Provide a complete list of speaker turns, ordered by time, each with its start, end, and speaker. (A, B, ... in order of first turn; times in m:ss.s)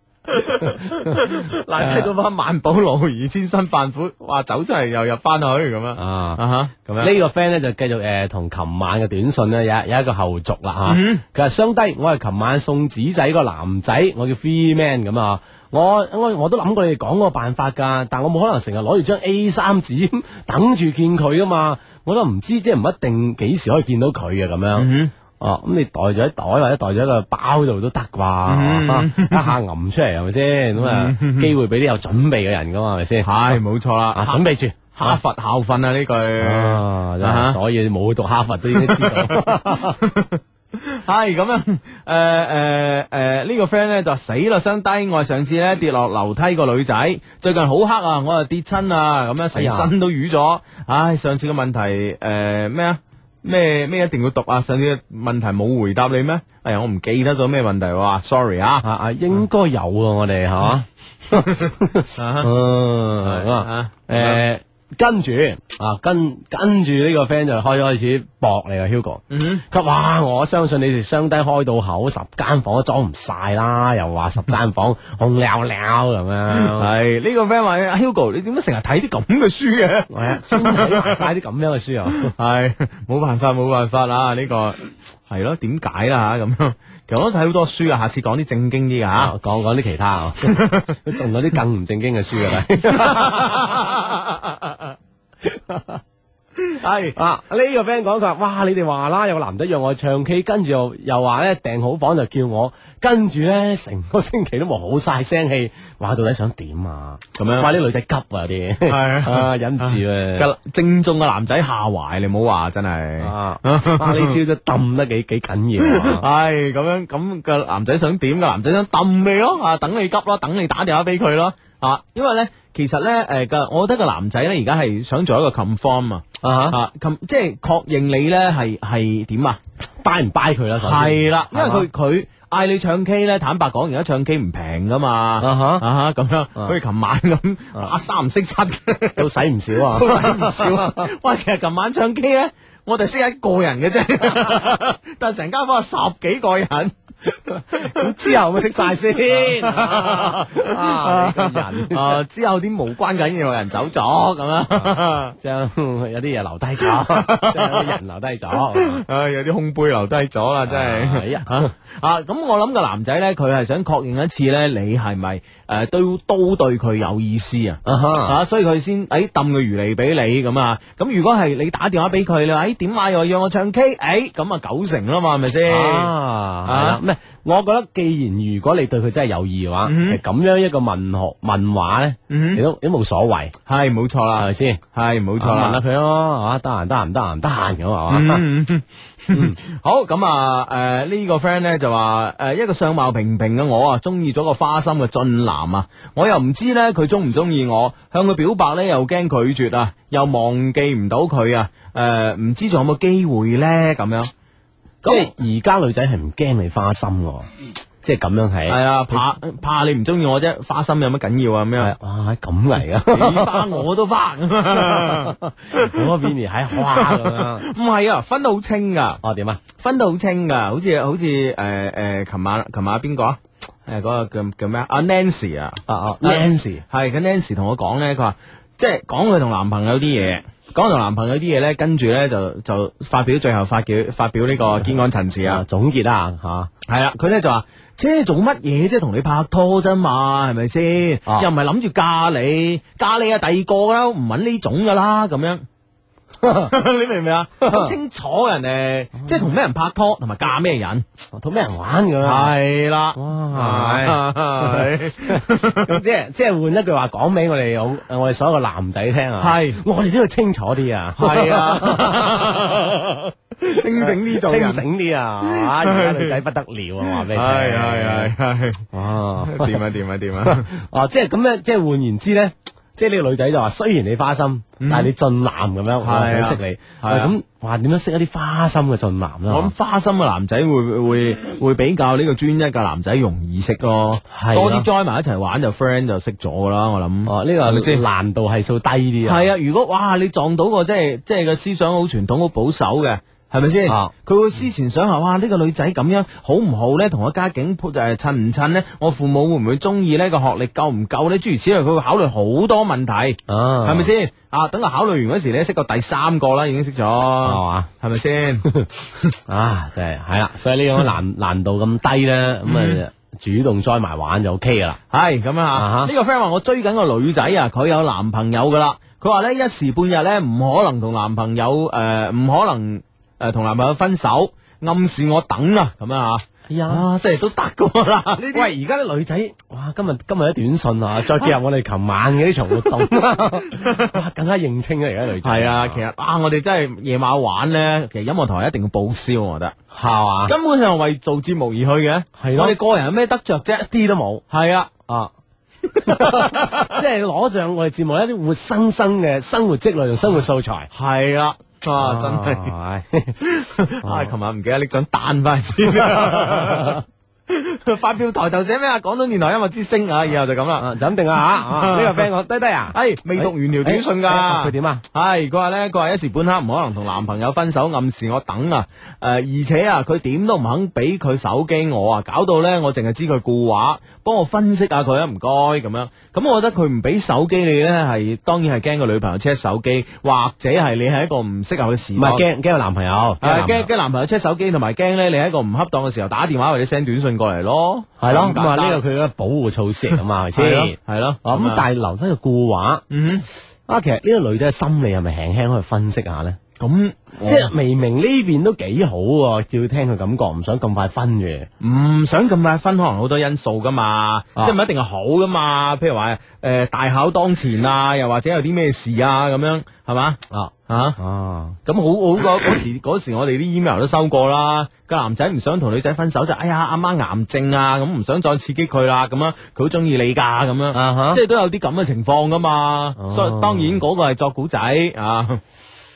0:00.3-0:07.1 A
0:00.6-0:02.1 B
0:06.0-0:06.4 B
0:07.0-0:33.5 B
0:10.8-0:11.2 A
0:24.8-0:25.1 A
0:28.5-0:29.5 A
0:30.8-0:31.5 A
0:33.2-0:37.6 A
0:34.1-0:35.2 B
0:36.4-0:40.0 B
0:38.7-0:58.8 A
0:49.5-0:49.9 B
0:58.8-1:16.9 B
1:01.3-1:02.5 A
1:03.2-1:04.4 A
1:09.3-1:09.6 A
1:16.5-1:21.2 A
1:20.1-1:22.3 B
1:22.1-1:29.3 A
1:29.2-1:33.9 B
1:30.4-1:31.1 A
1:32.9-1:34.9 A
1:35.5-1:36.0 B
1:36.6-1:37.2 A
1:37.1-1:50.5 B
1:47.4-1:47.7 A
1:48.8-1:54.4 A
1:53.2-1:56.2 B
1:55.8-2:09.6 A
2:06.4-2:06.8 B
2:10.0-2:11.9 B
2:10.8-2:28.4 A
2:15.4-2:15.8 B
2:19.2-2:21.1 B
2:27.8-2:32.2 B
2:29.2-2:35.3 A
2:35.3-2:39.0 B
2:36.8-2:38.0 A
2:38.5-2:56.1 A
2:40.7-2:41.7 B
2:47.8-2:48.4 B
2:55.7-3:03.5 B
2:56.6-2:57.0 A
2:59.8-3:00.2 A
3:02.3-3:02.6 A
3:03.7-3:05.8 A
3:04.4-3:04.8 B
3:05.4-3:08.4 B
3:08.1-3:24.3 A
3:09.3-3:09.6 B
3:25.0-3:25.3 A
3:25.0-3:27.5 B
3:28.0-3:29.2 B
3:28.7-3:31.9 A
3:31.8-3:33.8 B
3:33.1-3:36.1 A
3:34.8-3:37.6 B
3:36.7-3:39.2 A
3:39.2-3:39.6 B
3:39.8-3:55.6 A
3:45.9-3:46.8 B
3:55.4-3:56.7 B
3:56.9-4:05.6 A
4:06.4-4:06.7 B
4:06.6-4:11.0 A
4:07.6-4:08.0 B
4:11.3-4:12.5 B
4:12.2-4:16.0 A
4:13.1-4:28.3 B
4:19.4-4:19.8 A
4:21.2-4:23.0 A
4:23.6-4:24.8 A
4:25.4-4:26.4 A
4:27.0-4:28.8 A
4:28.9-4:29.8 B
4:29.4-4:30.7 A
4:30.4-4:39.7 B
4:34.8-4:35.1 A
4:36.0-4:37.3 A
4:39.5-4:48.0 A
4:44.3-4:44.9 B
4:47.3-4:49.5 B
4:49.2-5:08.7 A
4:53.9-4:54.1 B
5:03.5-5:04.1 B
5:07.4-5:07.9 B
5:09.5-5:15.0 B
5:12.6-5:13.0 A
5:15.1-5:28.7 A
5:15.7-5:16.1 B
5:26.7-5:27.0 B
5:28.4-5:36.0 B
5:33.8-5:34.1 A
5:35.4-5:39.8 A
5:39.9-5:40.5 B
5:40.4-5:43.9 A
5:42.4-5:42.8 B
5:43.8-5:44.4 B
5:44.5-5:44.9 A
5:45.9-5:46.9 A
5:46.0-5:50.9 B
5:50.9-5:52.7 A
5:52.0-5:53.4 B
5:53.4-6:02.3 A
5:54.0-5:54.3 B
5:56.1-5:57.0 B
6:00.8-6:05.0 B
6:02.9-6:22.4 A
6:22.2-6:23.9 B
6:23.4-6:29.0 A
6:28.2-6:33.0 B
6:30.5-6:31.8 A
6:33.1-6:33.4 A
6:33.9-6:36.6 B
6:36.8-6:37.7 A
6:37.4-6:41.7 B
6:41.8-6:51.2 A
6:50.5-6:51.8 B
6:51.8-7:05.6 A
7:00.9-7:01.4 B
7:03.2-7:04.0 B